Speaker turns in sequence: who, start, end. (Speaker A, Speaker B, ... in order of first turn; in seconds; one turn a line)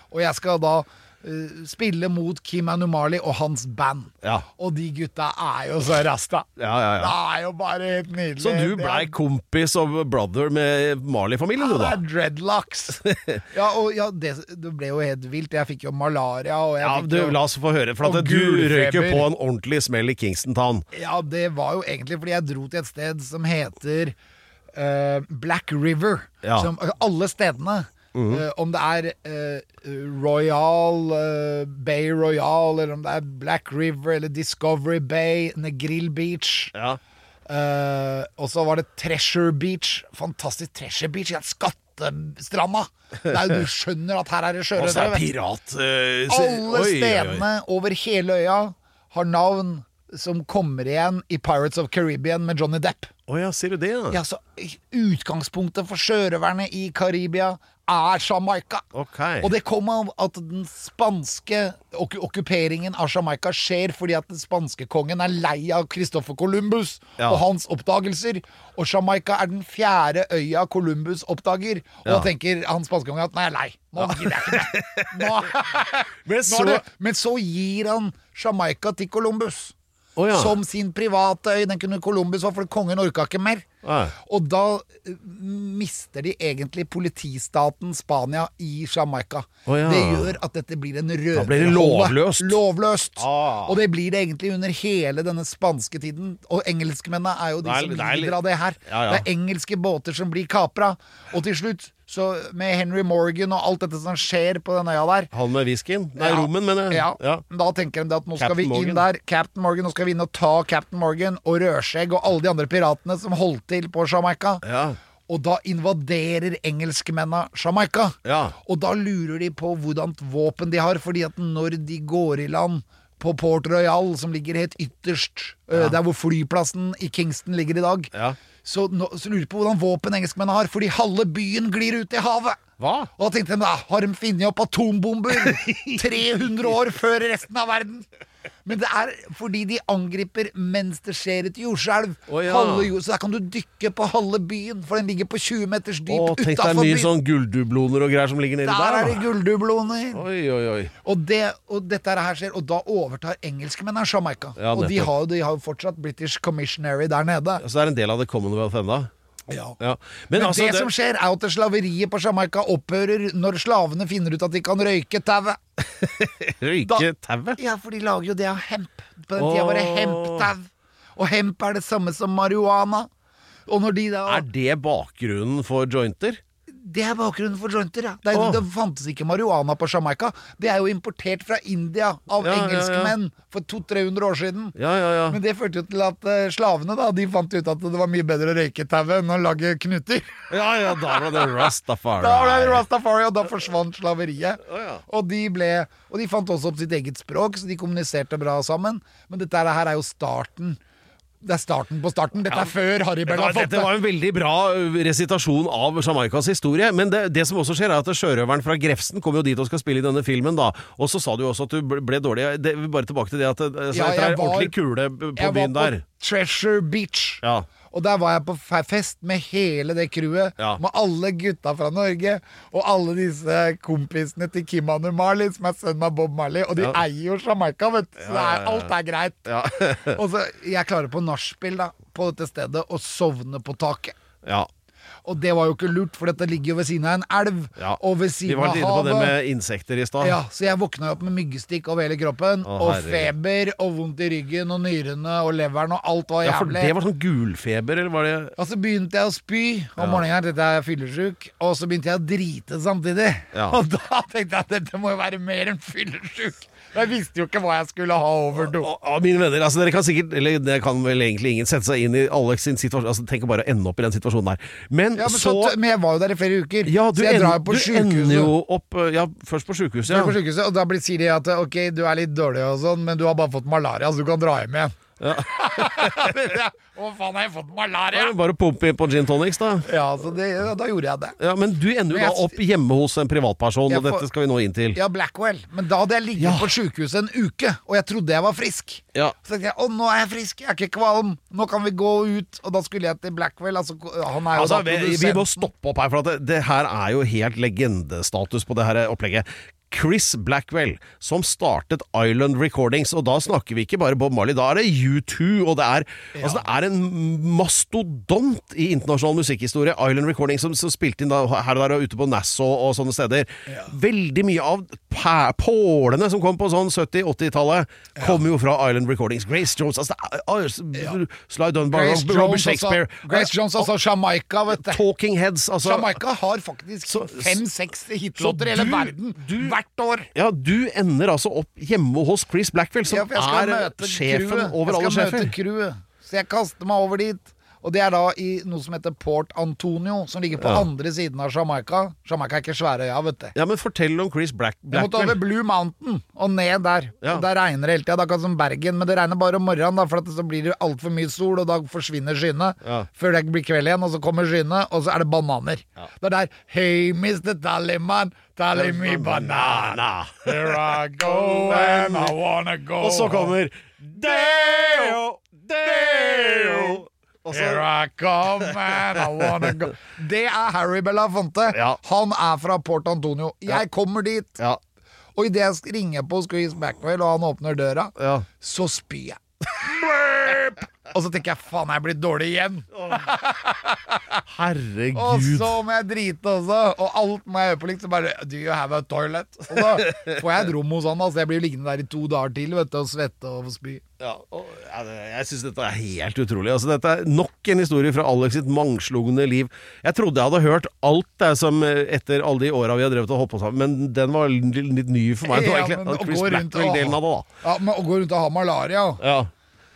Speaker A: 0.1-9.1
Speaker B: 6.6-7.1
Speaker B: 8.4-12.0
Speaker A: 11.6-17.4
Speaker B: 13.0-13.4
Speaker B: 16.8-20.8
Speaker A: 18.0-19.3
Speaker A: 20.9-24.1
Speaker A: 24.7-36.7
Speaker B: 26.4-26.7
Speaker B: 28.1-28.4
Speaker B: 36.7-37.0
Speaker A: 37.5-45.2
Speaker B: 44.8-47.5
Speaker A: 46.3-53.1
Speaker B: 53.3-54.2
Speaker A: 54.1-58.8
Speaker B: 58.9-59.5
Speaker A: 59.4-79.7
Speaker B: 74.0-75.5
Speaker B: 76.2-76.8
Speaker B: 80.2-80.5
Speaker A: 80.3-83.7
Speaker B: 83.8-84.1
Speaker A: 84.2-105.3
Speaker B: 89.7-90.3
Speaker B: 91.3-92.6
Speaker B: 93.2-93.8
Speaker B: 97.6-99.2
Speaker B: 105.3-107.4
Speaker A: 106.2-114.6
Speaker B: 108.4-109.0
Speaker B: 114.6-115.0
Speaker A: 115.3-128.1
Speaker B: 118.2-118.5
Speaker A: 128.6-132.6
Speaker B: 132.8-133.1
Speaker A: 133.2-138.1
Speaker B: 135.3-136.7
Speaker A: 138.6-147.1
Speaker B: 142.3-142.9
Speaker B: 146.1-149.2
Speaker A: 148.6-150.2
Speaker B: 150.1-150.9
Speaker A: 151.0-157.6
Speaker B: 154.6-155.1
Speaker B: 157.6-159.1
Speaker A: 159.5-159.8
Speaker B: 159.8-160.9
Speaker A: 160.3-165.6
Speaker B: 165.8-167.6
Speaker A: 166.8-173.1
Speaker B: 169.3-170.5
Speaker A: 173.7-174.4
Speaker B: 174.2-176.4
Speaker A: 176.7-184.8
Speaker B: 178.3-178.6
Speaker B: 182.4-183.1
Speaker B: 184.8-185.4
Speaker A: 185.3-190.4
Speaker B: 190.5-192.8
Speaker A: 191.2-191.4
Speaker A: 192.2-200.8
Speaker B: 194.6-195.0
Speaker A: 201.4-203.9
Speaker B: 202.5-202.7
Speaker B: 203.2-216.0
Speaker A: 213.9-214.7
Speaker A: 215.3-234.1
Speaker B: 228.2-228.9
Speaker B: 229.4-230.2
Speaker B: 234.4-234.7
Speaker A: 235.2-239.3
Speaker B: 237.8-240.4
Speaker A: 240.2-246.9
Speaker B: 242.6-243.3
Speaker B: 246.4-248.5
Speaker A: 248.6-258.9
Speaker B: 250.0-250.2
Speaker B: 258.6-265.8
Speaker A: 265.1-268.5
Speaker B: 266.8-270.4
Speaker A: 270.1-278.4
Speaker B: 275.2-276.4
Speaker B: 278.1-279.9
Speaker A: 279.9-281.4
Speaker B: 281.4-285.0
Speaker A: 282.1-282.6
Speaker A: 283.9-284.2
Speaker A: 284.9-295.7
Speaker B: 286.4-286.7
Speaker B: 294.5-323.9
Speaker A: 306.3-306.7
Speaker A: 321.9-325.0
Speaker B: 324.7-326.1
Speaker A: 325.8-330.3
Speaker B: 327.1-327.6
Speaker B: 328.4-329.7
Speaker B: 330.3-335.5
Speaker A: 333.1-343.5
Speaker B: 340.6-340.8
Speaker B: 343.5-345.4
Speaker A: 344.9-363.5
Speaker B: 358.7-362.3
Speaker B: 363.0-367.9
Speaker A: 364.1-365.2
Speaker A: 365.8-374.6
Speaker B: 368.6-369.7
Speaker B: 371.7-372.0
Speaker A: 375.4-384.4
Speaker B: 378.2-378.4
Speaker B: 383.0-383.3
Speaker B: 384.4-385.8
Speaker A: 385.1-394.0
Speaker B: 389.7-390.4
Speaker B: 394.2-407.5
Speaker A: 405.4-409.2
Speaker B: 409.2-409.5